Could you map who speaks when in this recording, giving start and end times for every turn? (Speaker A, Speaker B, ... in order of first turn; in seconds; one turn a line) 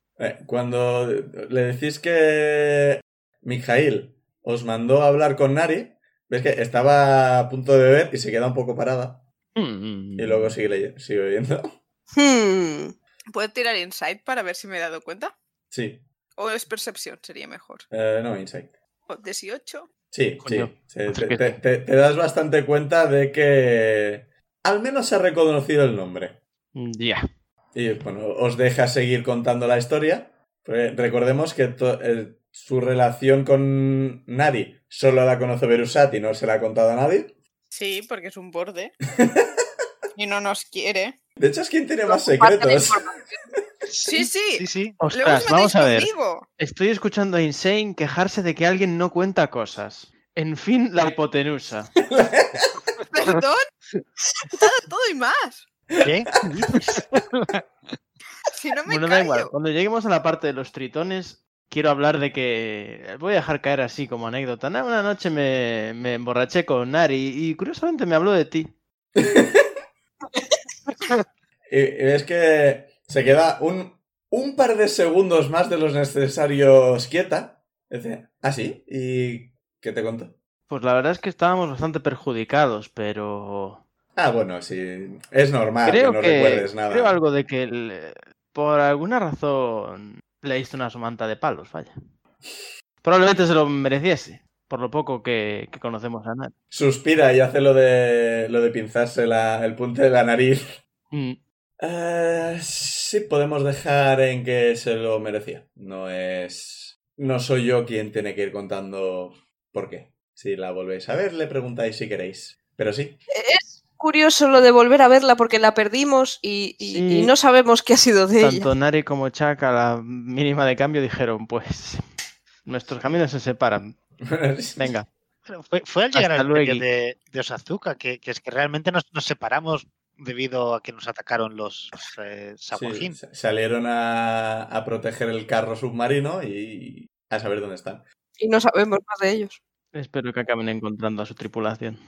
Speaker A: 0.2-9.2
Speaker B: 9.6-10.6
Speaker A: 10.2-11.8
Speaker C: 12.2-12.9
Speaker D: 13.3-15.3
Speaker A: 15.7-16.1
Speaker D: 16.4-17.9
Speaker A: 17.9-18.8
Speaker D: 19.1-19.9
Speaker A: 20.1-26.4
Speaker B: 20.4-21.6
Speaker B: 26.8-27.2
Speaker A: 27.7-37.4
Speaker D: 37.7-39.0
Speaker A: 39.2-39.6
Speaker D: 40.1-41.1
Speaker A: 41.4-43.1
Speaker C: 42.1-43.3
Speaker D: 44.0-46.5
Speaker E: 44.1-45.0
Speaker B: 45.0-51.9
Speaker A: 52.1-52.8
Speaker D: 53.1-53.7
Speaker D: 54.5-55.7
Speaker A: 56.0-56.2
Speaker E: 56.0-57.6
Speaker D: 58.5-59.5
Speaker B: 58.9-68.7
Speaker A: 69.2-69.7
Speaker A: 71.7-80.4
Speaker B: 80.7-83.8
Speaker A: 84.2-87.2
Speaker B: 85.8-91.9
Speaker B: 93.0-96.5
Speaker A: 96.7-100.8
Speaker B: 101.1-101.4
Speaker A: 101.8-113.2
Speaker C: 113.3-118.7
Speaker B: 116.8-117.3
Speaker B: 118.4-122.0
Speaker B: 122.6-123.9
Speaker A: 124.2-124.9
Speaker B: 124.8-125.1
Speaker E: 125.5-133.2
Speaker B: 126.1-126.8
Speaker A: 132.7-138.1
Speaker C: 138.4-139.6
Speaker B: 139.9-142.0